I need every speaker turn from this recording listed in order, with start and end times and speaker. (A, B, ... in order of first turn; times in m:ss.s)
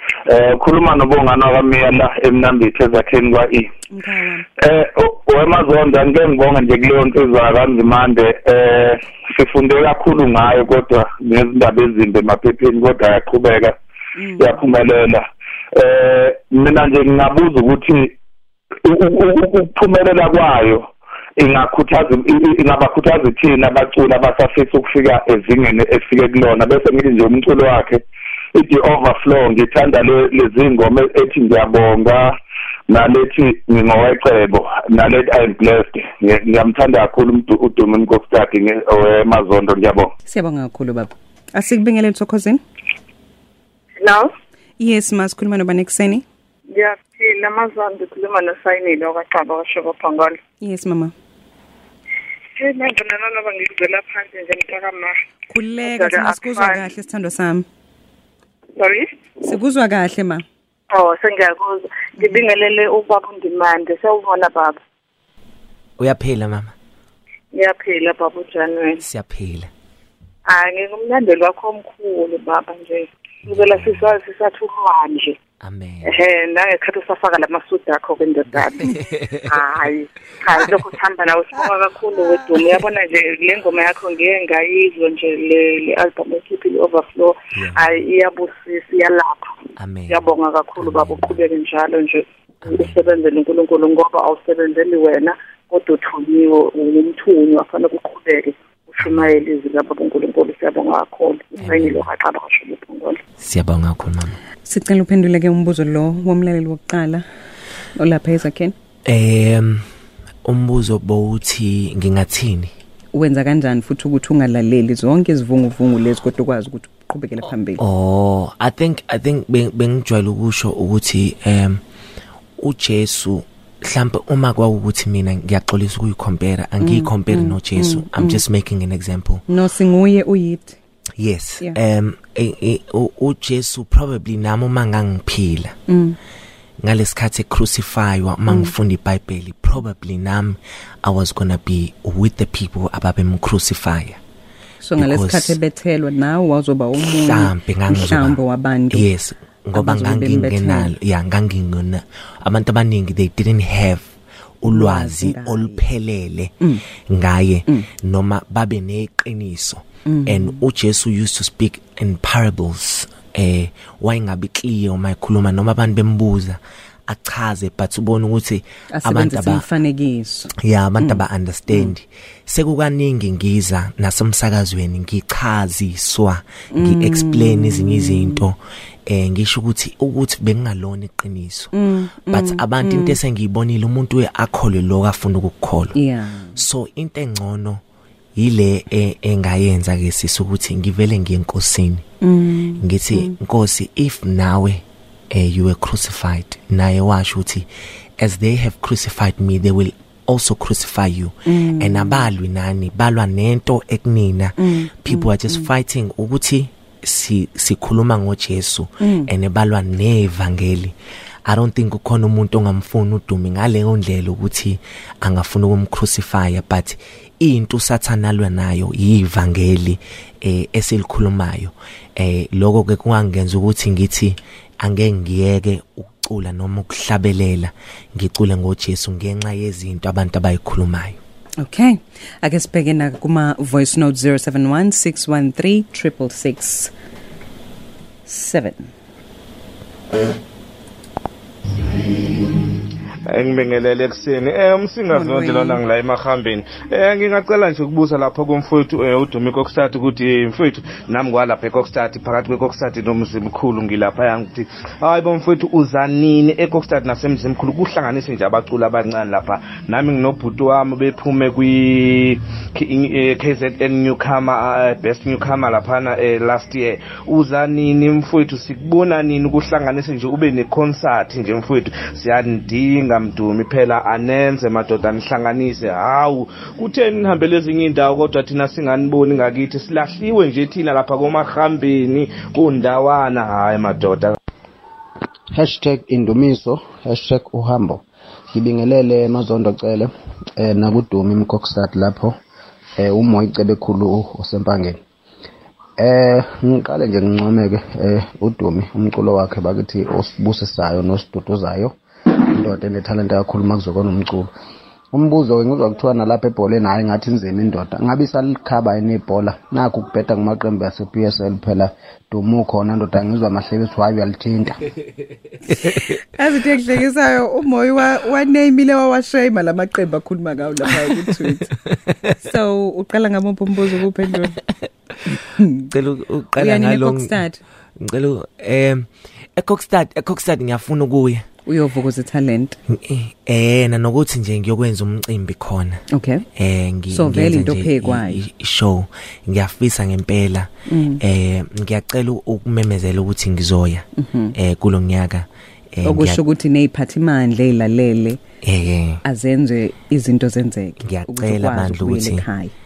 0:00.3-0:03.7 A
0:03.9-0:04.4 B
0:04.6-0:13.7 A
0:14.2-0:14.6 B
0:14.4-0:18.1 A
0:18.8-0:28.0 A
0:28.5-0:32.3 A
0:32.9-0:40.1 A
0:40.3-0:42.6 B
0:44.0-0:44.3 C
0:44.8-0:46.2 B
0:46.7-0:50.4 C
0:50.6-0:51.1 B
0:52.6-0:55.2 C
0:55.5-0:57.6 B
0:55.8-0:56.8 C
0:58.8-0:59.1 C
0:59.4-1:00.4 B
1:00.9-1:04.8 C
1:06.0-1:06.7 D
1:07.5-1:09.0 C
1:09.0-1:09.7 D
1:10.5-1:15.4 C
1:13.4-1:14.1 D
1:15.6-1:16.1 D
1:16.0-1:29.6 C
1:18.8-1:19.7 D
1:27.5-1:28.0 D
1:29.8-1:31.4 D
1:30.1-1:43.2 C
1:32.6-1:33.0 D
1:39.0-1:39.4 D
1:41.6-1:42.1 D
1:43.4-1:44.4 D
1:44.6-1:47.2 B
1:48.0-1:48.7 B
1:49.0-1:49.8 D
1:50.4-1:52.7 D
1:53.1-1:57.8 B
1:57.8-2:01.8 D
2:02.6-2:09.4 D
2:06.8-2:08.4 B
2:09.5-2:10.8 B
2:11.2-2:15.7 D
2:15.9-2:16.2 B
2:16.8-2:24.2 D
2:18.5-2:18.7 B
2:24.8-2:29.1 B
2:25.0-2:25.6 D
2:27.0-2:28.4 D
2:28.9-2:34.1 D
2:29.7-2:30.9 B
2:34.6-2:49.7 D
2:34.7-2:35.8 B
2:40.0-2:40.6 B
2:48.9-2:51.9 B
2:50.6-3:01.7 D
2:56.7-2:58.4 B
3:01.7-3:03.2 B
3:02.3-3:06.0 D
3:05.9-3:06.6 B
3:06.6-3:07.8 D
3:08.4-3:12.0 D
3:12.2-3:13.4 B
3:12.8-3:30.9 D
3:21.4-3:22.3 B
3:24.6-3:25.7 B
3:29.0-3:29.3 B
3:31.4-3:51.2 D
3:51.6-3:56.9 B
3:58.2-3:58.9 B
4:03.3-4:44.4 E
4:05.1-4:05.8 B
4:45.5-4:52.4 F
4:53.0-4:55.0 F
4:56.0-5:04.5 F
5:05.1-5:14.8 F
5:15.6-5:21.7 B
5:21.0-5:22.3 D
5:22.4-5:24.6 B
5:25.4-5:25.9 B
5:25.8-5:27.4 D
5:26.6-5:27.6 B
5:28.0-5:31.4 D
5:31.6-5:32.8 B
5:32.9-5:36.0 D
5:36.1-5:36.4 B
5:36.6-5:46.4 D
5:37.1-5:38.4 B
5:40.9-5:41.2 B
5:44.2-5:44.5 B
5:46.0-5:48.4 B
5:48.6-5:49.2 D
5:49.2-5:52.7 B
5:51.0-5:52.4 D